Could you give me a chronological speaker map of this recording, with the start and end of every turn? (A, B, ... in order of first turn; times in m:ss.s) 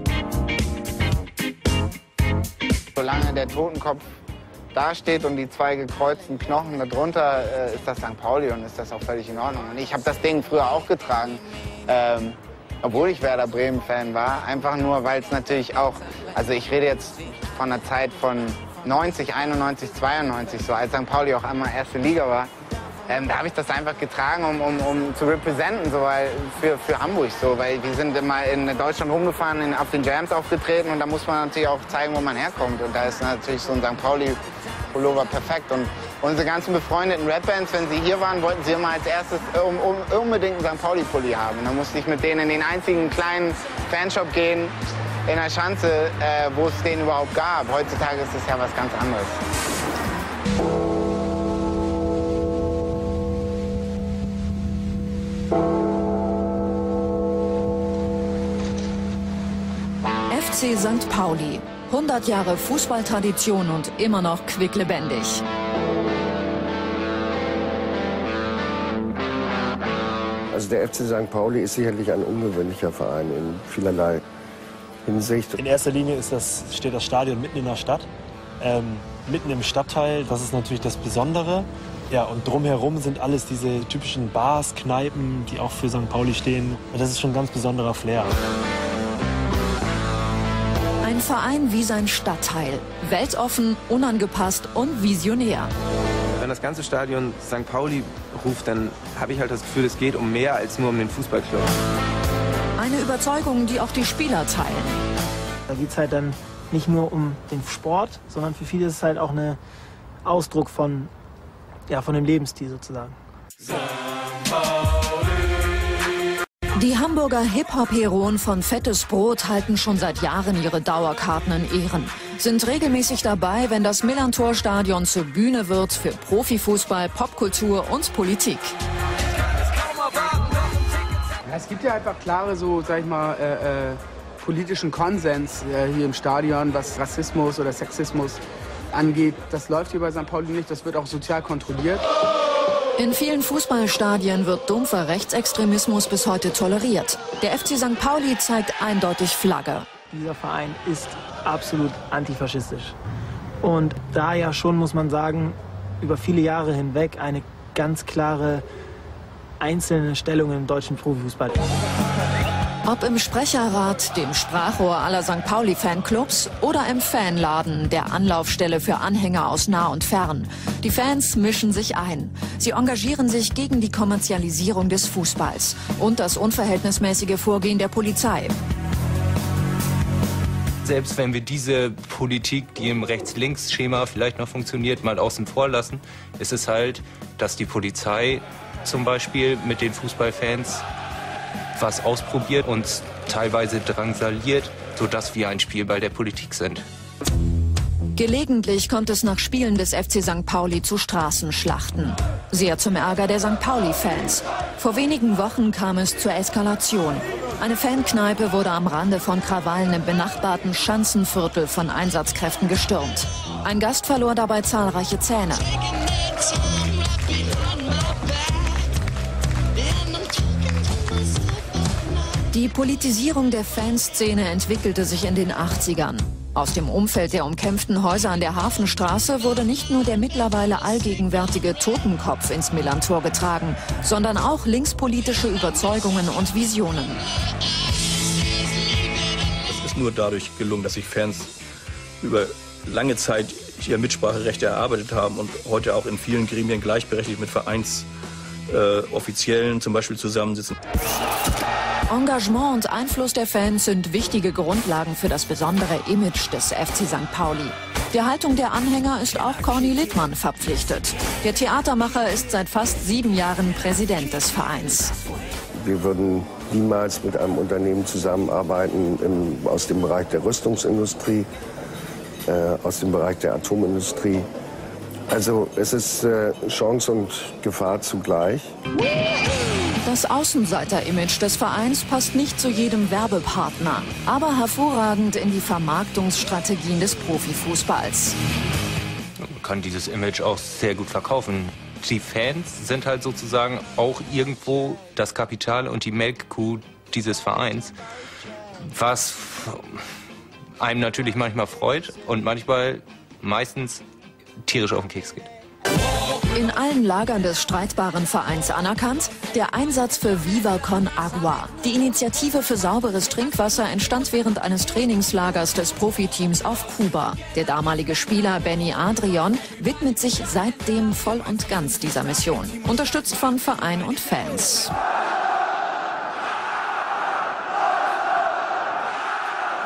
0:03.0-0:04.0 A
0:04.7-0:22.5 A
0:23.1-0:34.4 A
0:34.9-0:44.7 A
0:45.3-0:49.3 A
1:00.3-1:05.4 B
1:10.5-1:14.2 C
1:15.0-1:15.6 C
1:15.6-1:18.1 D
1:18.6-1:28.3 D
1:31.0-1:35.7 B
1:36.4-1:41.7 E
1:42.8-1:45.0 B
1:45.7-1:49.6 F
1:50.2-1:51.1 F
1:51.9-1:53.2 F
1:56.8-2:08.7 B
2:11.4-2:18.4 G
2:18.9-2:22.0 G
2:23.0-2:29.8 B
2:30.1-2:33.0 F
2:33.6-2:38.6 F
2:39.6-2:41.6 F
2:42.8-2:58.6 B
3:00.8-3:10.8 H
3:11.7-3:16.8 H
3:18.2-3:35.7 B
3:42.5-3:57.2 B
3:59.7-4:01.5 I
4:02.2-4:08.1 I
4:08.7-4:10.7 I
4:12.1-4:25.1 B
4:25.8-4:31.5 C
4:32.5-4:34.5 C
4:35.3-4:38.7 C
4:40.0-4:48.4 B
4:49.5-4:57.9 H
4:58.9-5:00.0 H
5:00.8-5:04.0 H
5:04.6-5:05.5 H
5:06.5-5:24.9 B